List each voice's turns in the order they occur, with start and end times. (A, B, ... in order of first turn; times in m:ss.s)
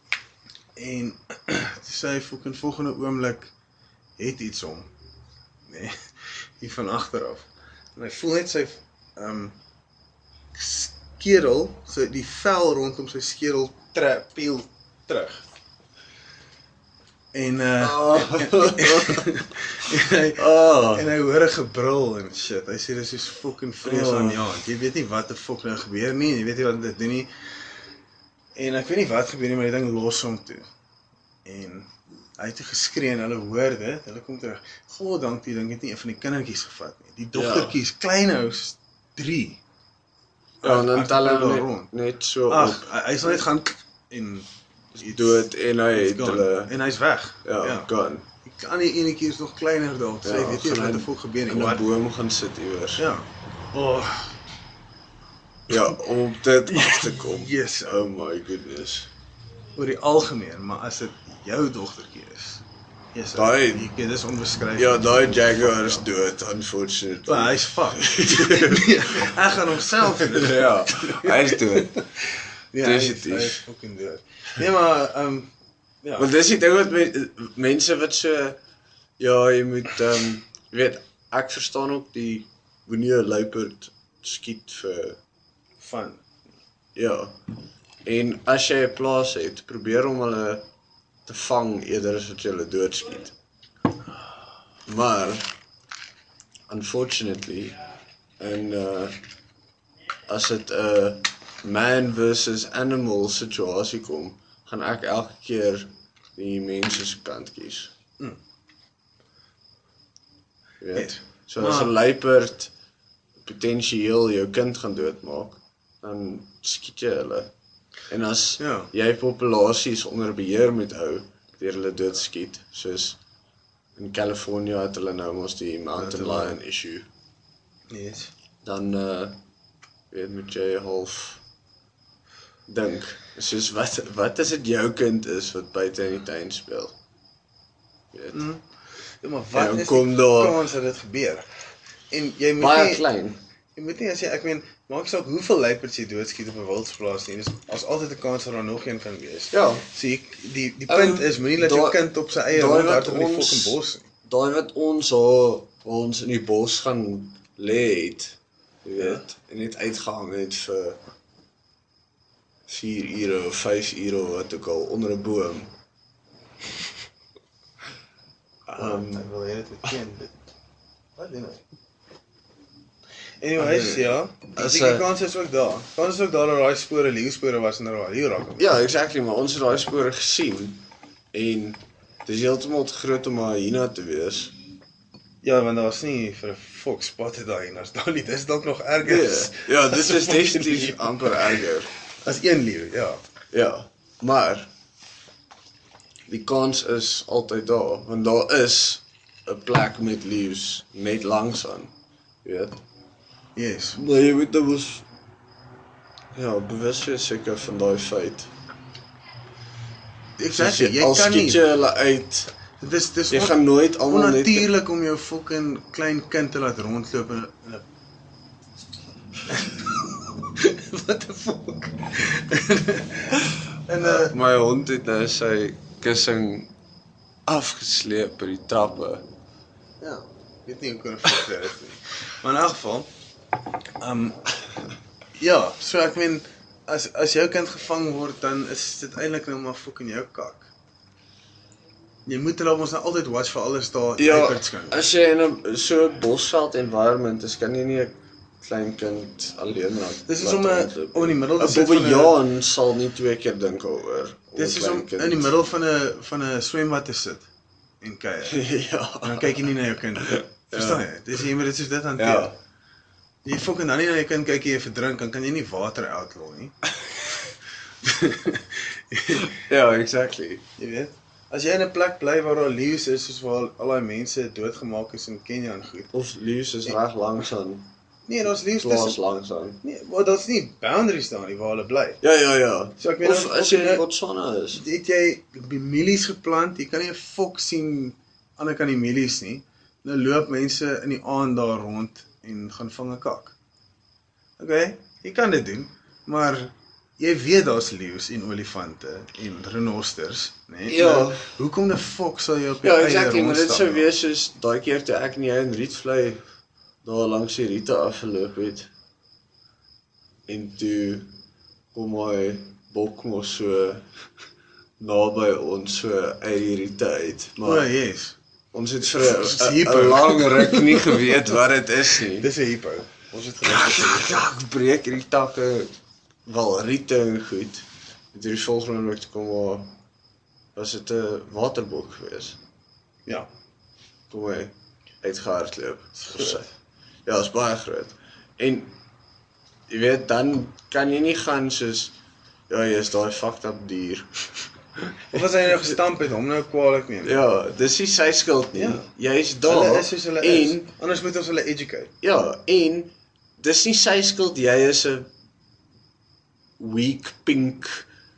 0:00.8-0:03.5 A
0:04.2-0:04.9 A
0:05.7-0:06.0 A
0:06.6-0:09.6 A
0:10.5-0:15.4 A
0:17.3-0:27.3 A
0:17.8-0:19.4 B
0:20.4-0:21.1 B
0:23.8-0:24.4 B
0:28.6-0:30.6 A
0:31.4-0:39.6 A
0:37.3-0:37.8 B
0:40.6-0:41.9 A
0:40.6-0:43.4 B
0:42.5-0:47.9 A
0:45.0-0:46.7 B
0:47.4-0:48.2 B
0:48.4-0:51.8 A
0:50.2-0:53.0 B
0:53.0-0:54.3 A
0:55.7-0:59.1 B
0:56.7-0:58.0 A
0:59.8-1:06.0 A
1:03.3-1:03.9 B
1:04.7-1:09.4 B
1:07.2-1:15.5 A
1:10.0-1:11.9 B
1:12.8-1:13.6 B
1:16.0-1:16.3 A
1:16.2-1:18.6 B
1:19.2-1:25.2 B
1:25.8-1:26.2 A
1:26.9-1:27.4 B
1:28.0-1:30.6 B
1:31.2-1:33.3 B
1:34.8-1:35.5 B
1:36.7-1:37.8 B
1:38.4-1:39.2 B
1:40.3-1:47.9 B
1:50.8-1:52.7 B
1:50.9-1:51.9 A
1:53.4-1:57.5 B
1:58.1-2:03.2 B
1:58.6-1:58.9 A
2:04.0-2:07.1 B
2:06.0-2:06.6 A
2:07.9-2:08.3 A
2:08.6-2:09.4 B
2:10.1-2:11.4 B
2:12.7-2:16.9 B
2:18.1-2:18.4 B
2:18.3-2:18.6 A
2:19.2-2:21.5 A
2:19.5-2:20.6 B
2:22.1-2:23.0 A
2:22.6-2:23.4 B
2:23.8-2:34.1 A
2:29.5-2:29.8 B
2:30.9-2:41.0 B
2:39.0-2:39.2 A
2:42.7-2:45.7 B
2:48.7-2:49.3 B
2:48.8-2:50.3 A
2:51.2-2:51.6 A
2:53.4-2:58.7 A
2:53.6-2:55.1 B
2:58.6-3:04.5 B
3:05.4-3:11.6 A
3:09.0-3:11.9 B
3:12.2-3:13.2 A
3:13.5-3:14.7 B
3:16.3-3:21.9 B
3:22.4-3:22.8 B
3:23.6-3:24.0 A
3:23.9-3:25.0 B
3:26.3-3:28.5 B
3:30.4-3:31.6 A
3:30.5-3:32.5 B
3:32.8-3:37.8 A
3:33.3-3:34.7 B
3:39.5-3:40.0 A
3:40.5-3:44.3 A
3:44.0-3:46.7 B
3:47.4-3:49.2 B
3:50.0-3:53.1 A
3:54.0-3:54.4 A
3:55.4-4:00.7 A
4:02.2-4:05.1 A
4:04.2-4:15.5 B
4:10.2-4:12.4 A
4:14.6-4:17.5 A
4:18.0-4:18.6 A
4:18.5-4:21.1 B
4:19.2-4:22.5 A
4:22.2-4:22.6 B
4:23.4-4:27.5 A
4:28.0-4:29.5 A
4:29.4-4:30.6 B
4:30.8-4:36.1 A
4:36.1-4:37.9 B
4:38.3-4:39.2 A
4:38.8-4:39.8 B
4:39.8-4:42.2 A
4:42.2-4:44.8 B
4:43.0-4:44.0 A
4:44.7-4:53.5 A
4:54.6-5:04.1 A
5:00.9-5:01.4 B
5:02.8-5:06.4 B
5:07.0-5:08.9 B
5:10.5-5:11.3 B
5:11.9-5:14.0 B
5:15.0-5:17.9 B
5:17.6-5:18.4 A
5:18.7-5:22.5 B
5:19.0-5:21.4 A
5:22.3-5:24.4 A
5:23.6-5:25.9 B
5:26.4-5:30.0 B
5:30.7-5:32.6 B
5:34.3-5:36.7 B
5:36.2-5:36.7 A
5:37.2-5:38.9 B
5:39.9-5:42.1 B
5:42.7-5:45.4 B
5:45.3-5:47.4 A
5:47.2-5:50.9 B
5:48.7-5:49.1 A
5:49.6-5:52.1 A
5:52.2-5:55.3 B
5:56.8-5:58.0 B